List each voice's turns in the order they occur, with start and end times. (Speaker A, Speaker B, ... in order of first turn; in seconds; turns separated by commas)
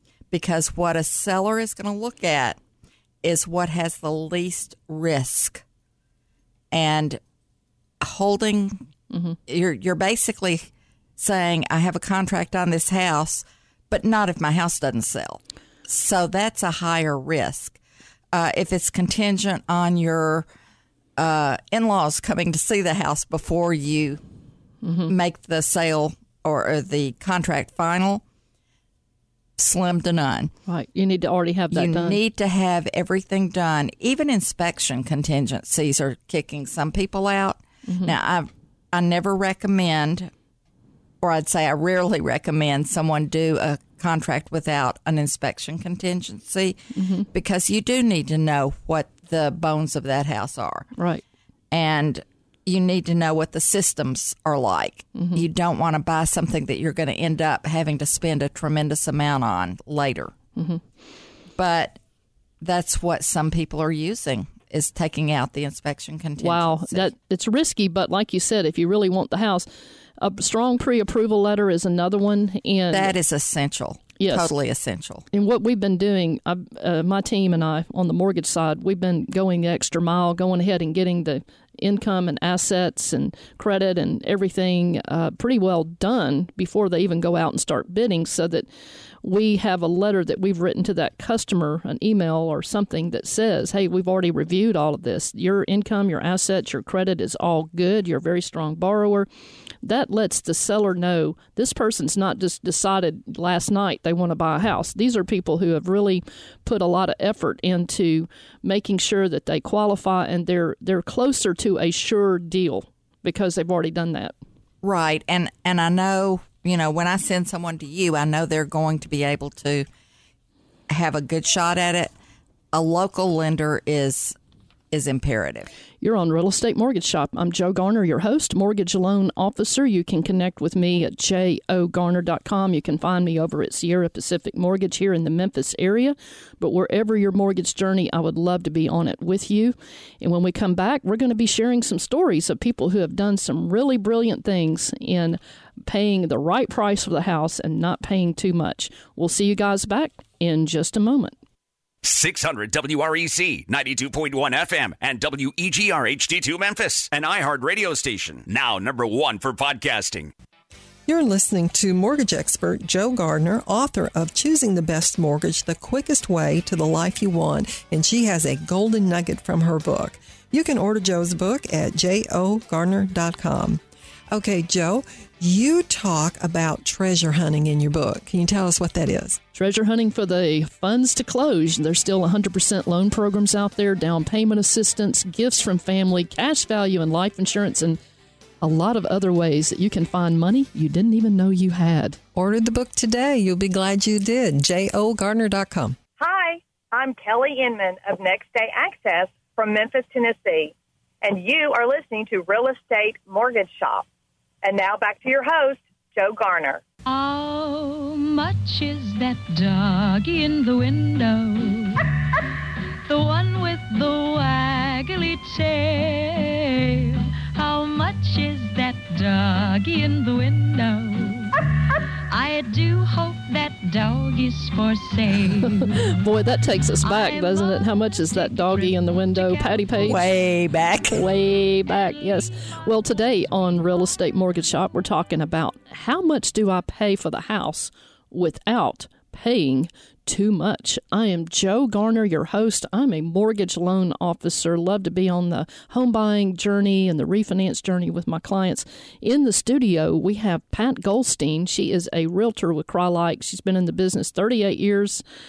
Speaker A: 0.3-2.6, Speaker A: 3.2-5.6, Speaker A: 6.7-7.2, Speaker A: 8.0-8.9, Speaker B: 9.1-9.4, Speaker A: 9.5-17.8, Speaker A: 18.3-20.5, Speaker A: 21.2-24.2, Speaker B: 24.8-25.1, Speaker A: 25.1-28.2, Speaker A: 29.6-30.5, Speaker B: 30.7-32.2, Speaker A: 31.7-40.3, Speaker B: 37.9-38.1, Speaker A: 41.2-50.9, Speaker B: 47.0-47.3, Speaker B: 51.0-51.2, Speaker A: 51.7-60.4, Speaker B: 55.1-55.4, Speaker B: 60.6-60.8, Speaker A: 61.6-62.0, Speaker A: 62.6-67.1, Speaker B: 66.4-69.7, Speaker B: 70.2-73.2, Speaker A: 72.9-75.2, Speaker B: 74.2-74.5, Speaker B: 75.3-88.7, Speaker B: 89.2-99.3, Speaker B: 99.8-114.3, Speaker A: 114.8-119.9, Speaker A: 120.9-122.1, Speaker A: 122.7-124.4, Speaker A: 124.9-125.7, Speaker B: 126.0-151.3, Speaker C: 152.0-160.3, Speaker D: 161.1-179.4, Speaker B: 179.6-188.0, Speaker B: 188.6-192.2, Speaker D: 192.3-196.0, Speaker E: 196.2-204.1, Speaker E: 204.6-206.8, Speaker F: 207.1-212.1, Speaker F: 213.1-221.6, Speaker F: 222.3-226.2, Speaker B: 225.6-230.3, Speaker F: 227.0-230.4, Speaker A: 230.0-231.2, Speaker B: 231.1-255.2, Speaker F: 231.9-232.4